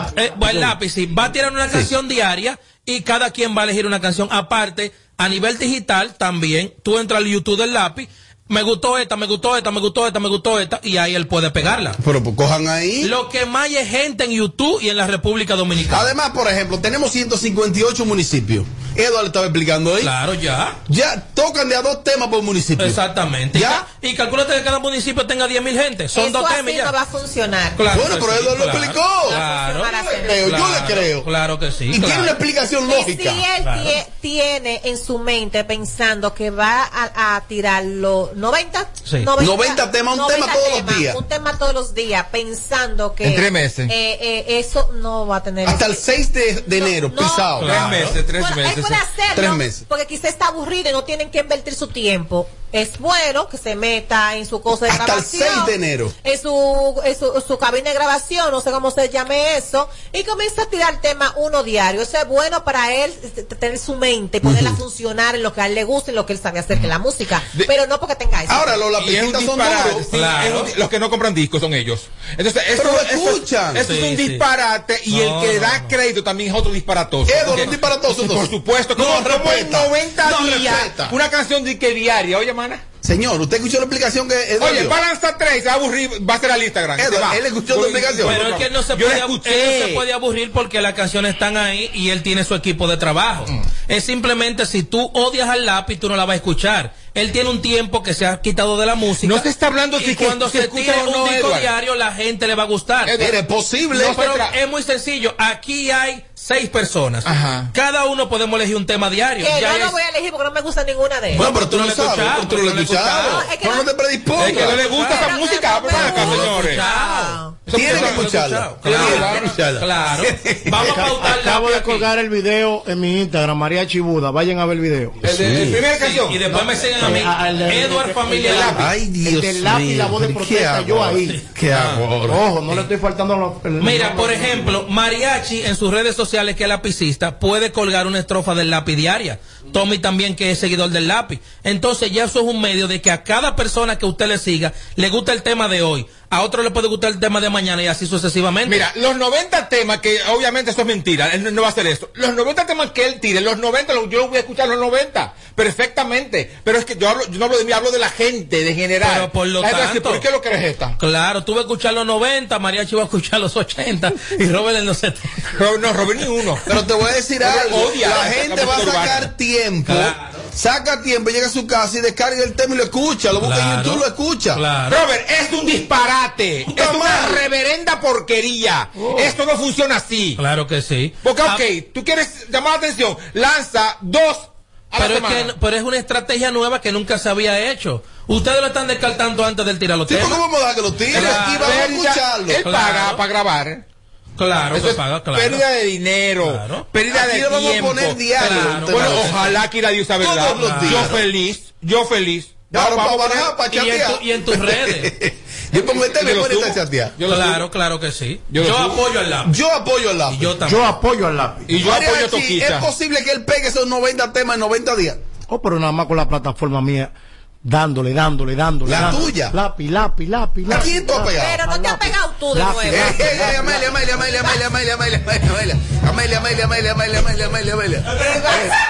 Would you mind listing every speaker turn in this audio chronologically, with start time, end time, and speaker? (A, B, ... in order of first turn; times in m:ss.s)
0:00.2-0:12.0 A
0:12.0-0:13.1 B
0:13.0-0:16.1 A
0:15.9-0:20.1 B
0:20.0-0:20.8 A
0:20.9-0:23.0 B
0:22.8-0:26.9 A
0:23.5-0:23.8 B
0:26.1-0:27.8 C
0:27.8-0:32.4 A
0:27.9-0:29.4 B
0:29.3-0:30.5 C
0:30.2-0:31.3 B
0:31.9-0:33.4 B
0:32.8-0:46.0 C
0:33.6-0:34.0 A
0:39.4-0:41.2 B
0:43.2-0:43.9 D
0:45.6-0:48.0 B
0:46.8-1:08.9 C
0:47.6-0:48.2 A
0:47.6-0:49.0 D
0:49.3-0:49.8 B
0:54.9-0:56.1 B
1:04.4-1:04.8 B
1:08.5-1:10.1 B
1:09.0-1:22.8 D
1:10.1-1:10.7 A
1:12.8-1:13.8 B
1:13.8-1:14.4 A
1:15.1-1:15.9 A
1:17.3-1:21.2 B
1:23.0-1:25.0 B
1:24.6-1:30.0 D
1:27.0-1:28.4 B
1:28.2-1:43.1 A
1:39.2-1:41.7 D
1:43.1-1:43.4 D
1:43.2-1:44.2 B
1:44.0-1:50.0 A
1:44.0-1:44.5 D
1:47.2-1:47.7 D
1:49.4-1:51.5 C
1:51.3-1:54.8 B
1:51.3-1:53.4 A
1:53.2-1:53.9 C
1:54.4-1:56.8 D
1:54.6-1:55.3 A
1:54.6-1:57.6 C
1:55.9-2:02.1 A
1:57.7-1:58.3 D
1:57.7-2:00.7 B
1:58.8-1:59.5 D
2:00.8-2:05.4 E
2:05.2-2:06.4 D
2:05.3-2:05.8 B
2:06.0-2:08.8 A
2:06.4-2:11.4 E
2:08.5-2:08.8 D
2:08.7-2:12.4 B
2:12.3-2:14.8 E
2:13.8-2:28.9 A
2:28.7-2:41.0 D
2:39.0-2:40.2 A
2:41.0-2:45.5 A
2:45.6-2:46.6 D
2:46.7-2:54.6 B
2:47.4-2:49.3 D
2:49.8-2:50.4 A
2:53.4-2:55.0 A
2:54.9-3:00.4 D
2:56.7-2:57.4 B
2:59.0-2:59.3 E
3:00.4-3:01.6 A
3:01.2-3:05.5 D
3:05.0-3:10.4 A
3:10.1-3:12.6 B
3:11.1-3:11.8 A
3:11.1-3:13.8 D
3:12.6-3:13.2 A
3:14.4-3:15.6 A
3:14.7-3:23.5 D
3:16.4-3:16.8 A
3:17.1-3:19.6 B
3:18.4-3:19.4 A
3:20.2-3:21.2 B
3:20.5-3:21.2 A
3:22.7-3:27.1 B
3:23.7-3:25.1 A
3:25.7-3:27.6 D
3:27.2-3:29.5 A
3:28.5-3:29.0 D
3:29.4-3:30.5 B
3:30.3-3:31.0 A
3:30.6-3:31.7 E
3:31.7-3:32.8 D
3:31.8-3:35.2 B
3:35.5-3:37.1 E
3:37.6-3:44.0 E
3:38.8-3:39.5 B
3:40.7-3:41.6 B
3:41.3-3:43.8 C
3:42.9-3:48.1 B